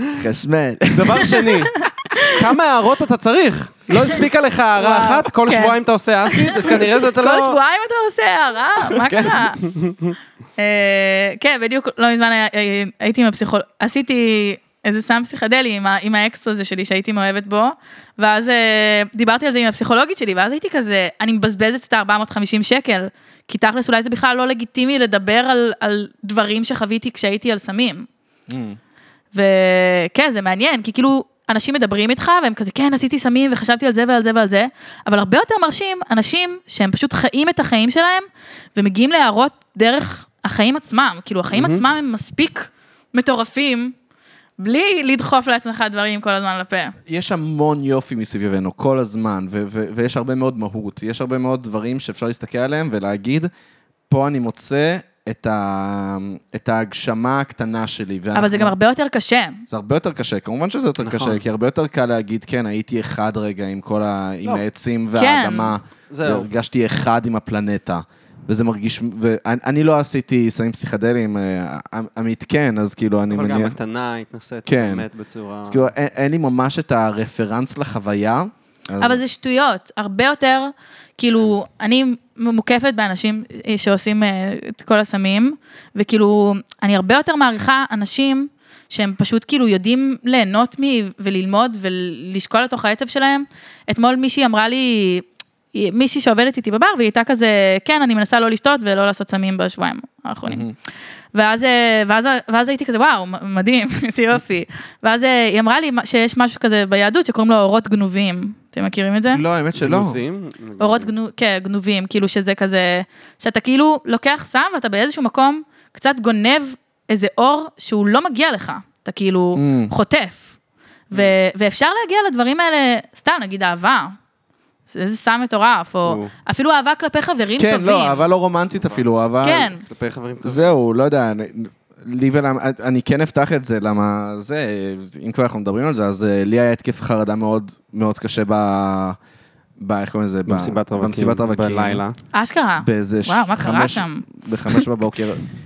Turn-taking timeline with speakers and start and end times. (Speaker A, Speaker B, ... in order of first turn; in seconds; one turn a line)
Speaker A: 0.1-1.4
Speaker B: 0.9-7.6
Speaker C: 1.8-2.4
Speaker C: 4.8-9.6
Speaker B: 8.9-10.2
Speaker C: 10.6-28.1
Speaker A: 28.5-28.8
Speaker C: 29.3-43.9
Speaker B: 41.5-41.8
Speaker C: 44.6-47.0
Speaker A: 47.1-53.5
Speaker A: 54.1-58.7
Speaker C: 58.4-59.6
Speaker A: 59.7-73.8
Speaker B: 61.0-61.4
Speaker C: 65.2-65.8
Speaker B: 66.1-66.5
Speaker B: 73.3-75.9
Speaker A: 74.7-75.1
Speaker A: 75.7-79.2
Speaker C: 79.0-100.7
Speaker A: 100.5-100.7
Speaker C: 101.3-109.4
Speaker A: 109.3-110.2
Speaker B: 109.8-111.1
Speaker C: 110.8-120.5
Speaker A: 119.6-119.9
Speaker C: 121.1-124.2
Speaker C: 124.9-128.3
Speaker B: 126.0-126.3
Speaker A: 127.6-129.7
Speaker B: 128.8-129.0
Speaker C: 129.4-129.8
Speaker B: 129.8-130.7
Speaker A: 130.4-139.2
Speaker A: 139.8-142.0
Speaker B: 140.5-142.2
Speaker C: 142.3-144.8
Speaker A: 142.8-145.4